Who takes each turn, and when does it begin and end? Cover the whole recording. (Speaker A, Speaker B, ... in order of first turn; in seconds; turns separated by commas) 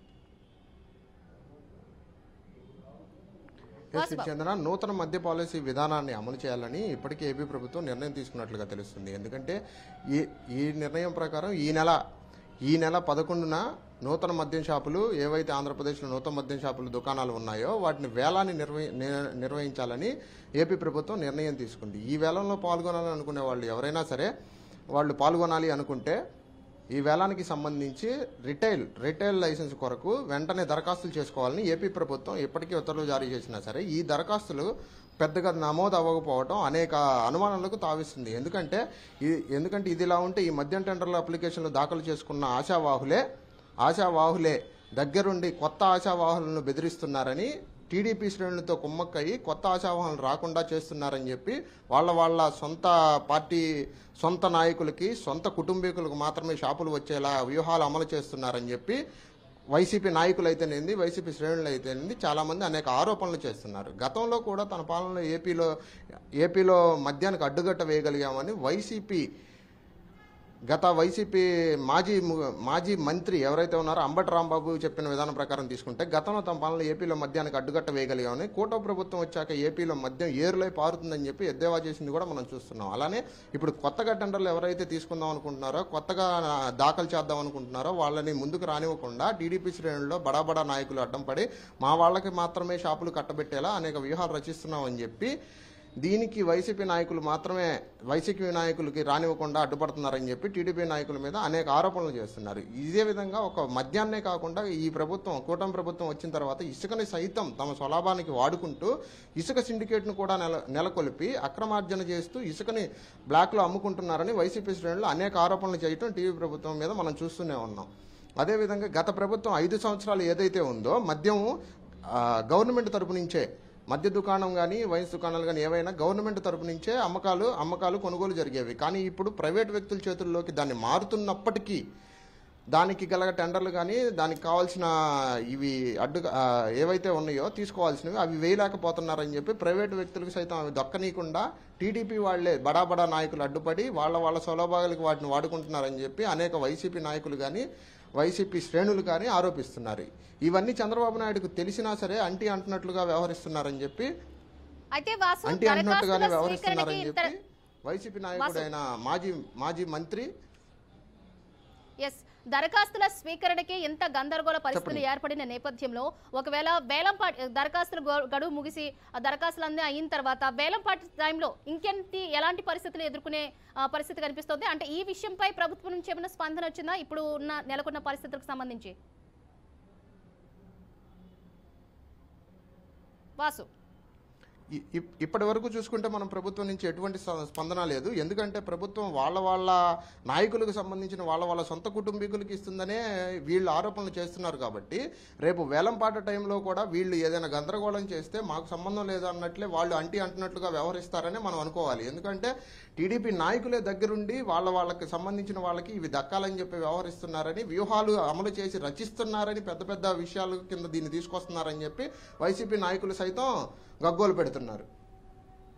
Speaker A: 3.9-9.6, Speaker B: 4.0-4.3, Speaker A: 10.1-12.0, Speaker A: 12.7-24.3, Speaker A: 24.9-26.2, Speaker A: 26.9-34.7, Speaker A: 35.2-43.2, Speaker A: 43.8-53.6, Speaker A: 54.2-59.0, Speaker A: 59.7-65.7, Speaker A: 66.4-69.2, Speaker A: 70.7-95.3, Speaker A: 96.0-117.9, Speaker A: 118.4-121.5, Speaker A: 122.1-131.8, Speaker A: 132.7-134.9, Speaker A: 135.5-136.3, Speaker A: 136.8-147.6, Speaker A: 148.2-154.1, Speaker B: 154.9-157.3, Speaker A: 155.5-160.3, Speaker B: 158.4-158.7, Speaker B: 162.0-178.9, Speaker A: 164.7-165.0, Speaker B: 183.4-183.7, Speaker A: 184.8-189.8, Speaker A: 190.3-213.5, Speaker A: 214.0-214.9